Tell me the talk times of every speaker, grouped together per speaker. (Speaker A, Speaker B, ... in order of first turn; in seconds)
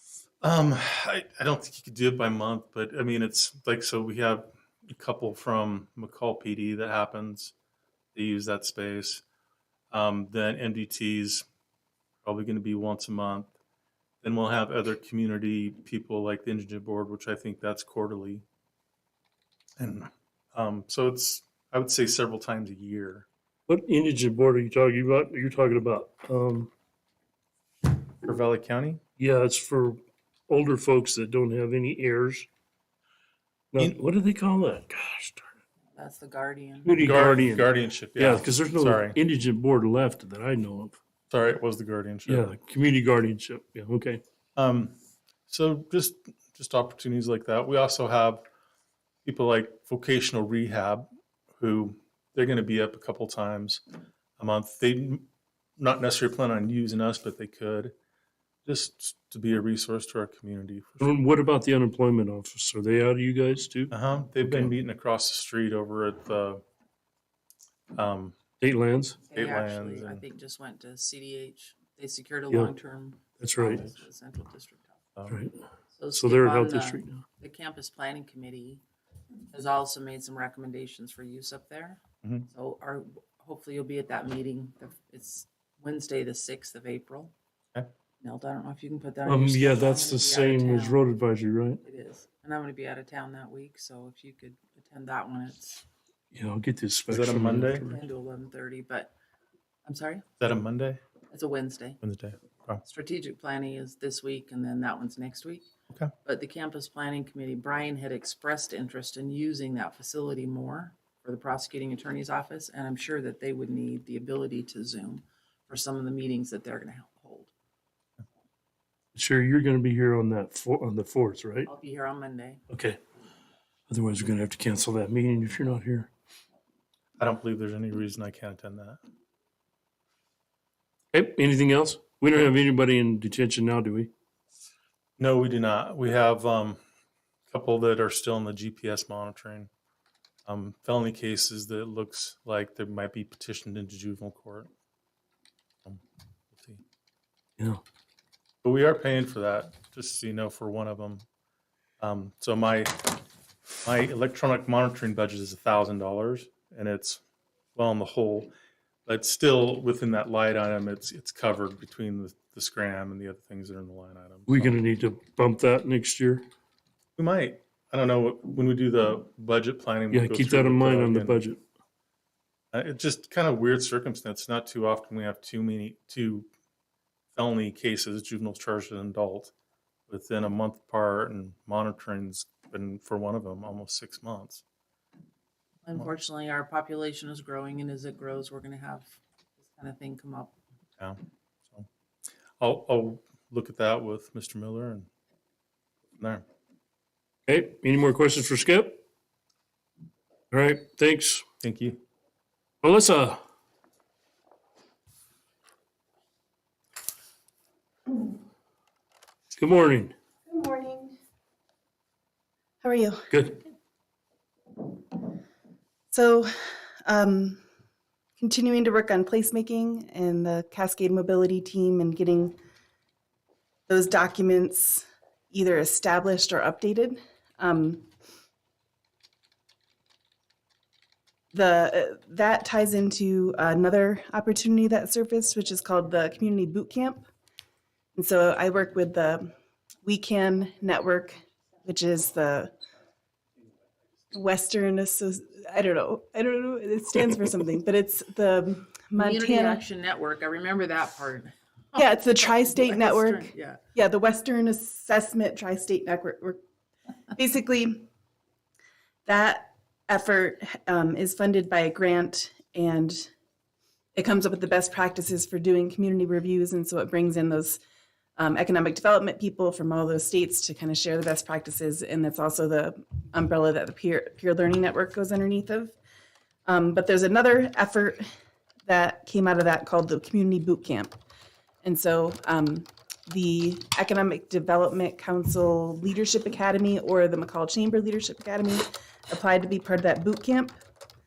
Speaker A: 0.4-7.5, 8.1-9.2, 9.9-11.4, 12.2-13.5, 14.2-18.4, 19.8-23.3, 28.2-29.0, 37.0-39.2, 41.3-42.6, 44.5-45.0, 45.5-48.4, 49.2-51.1, 51.6-53.8, 54.4-55.3, 55.8-57.9, 58.6-61.1, 63.9-66.6, 67.9-68.4, 69.3-70.2, 97.1-97.9, 100.4-101.0, 102.0-102.8, 127.2-129.0, 135.2-136.8, 137.5-139.7, 140.4-144.7, 146.5-146.8, 148.6-151.2, 152.0-153.2, 153.8-157.2, 157.8-158.5, 159.1-164.7, 167.2-171.4, 172.7-176.5, 177.3-179.5, 180.1-184.6, 192.6-195.1, 196.2-196.4, 201.6-202.0
Speaker B: 23.7-26.7, 29.2-32.5, 33.7-35.5, 36.8-41.0, 42.2-44.2, 61.0-64.7, 68.6-69.2, 73.4-73.9, 75.3-75.5, 76.1-77.2, 89.2-91.8, 96.3-98.0, 119.1-121.7, 122.7-123.0, 123.9-126.1, 131.1-134.1, 164.5-166.4, 170.1-171.6, 197.5-199.0, 200.5-201.4, 202.8-203.4, 209.6-210.1, 213.3-213.6
Speaker C: 35.9-37.0, 69.3-75.0, 75.9-78.8, 79.5-87.3, 88.2-91.1, 91.8-95.8, 97.8-99.1, 99.8-100.2, 101.3-102.0, 102.8-105.7, 106.2-117.5, 121.6-122.6, 185.8-190.5, 249.2-253.8
Speaker D: 210.5-211.2, 212.8-213.3, 216.1-216.5, 217.0-217.6, 218.4-222.6, 223.9-228.1, 231.5-237.2, 238.2-239.5, 240.0-242.7, 244.3-249.8, 251.9-256.6, 257.3-258.1, 259.2-263.3, 264.1-267.8, 268.4-275.9, 276.6-278.2, 278.9-281.1, 281.8-290.8